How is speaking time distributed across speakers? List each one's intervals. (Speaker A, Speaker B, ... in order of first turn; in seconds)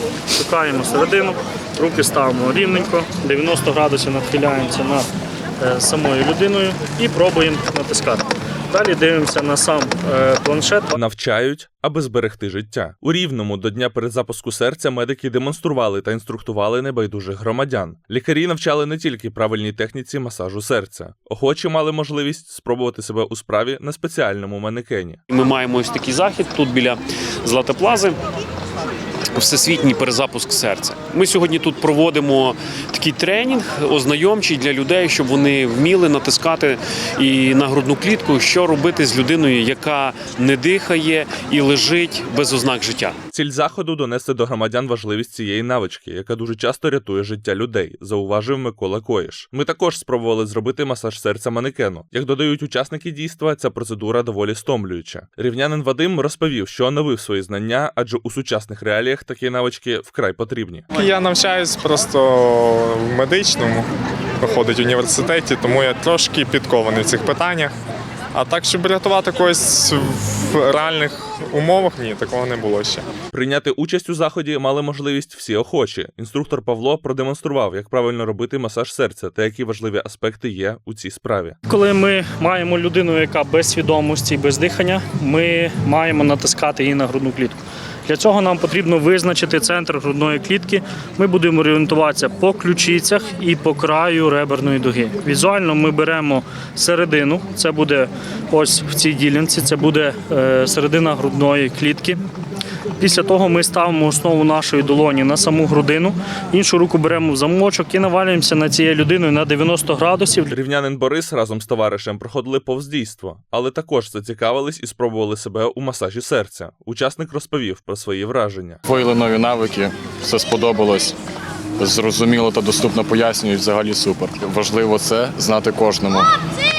Speaker A: 0.3-5.1, 5.6-10.9, 81.7-102.2, 103.0-110.5
Speaker B: 10.9-25.2, 43.3-60.8, 73.3-81.6, 110.5-118.8
Speaker C: 25.3-28.2, 29.3-43.1
Speaker D: 60.9-63.9, 64.4-67.7, 68.3-73.0
Speaker E: 118.8-121.1, 121.8-126.3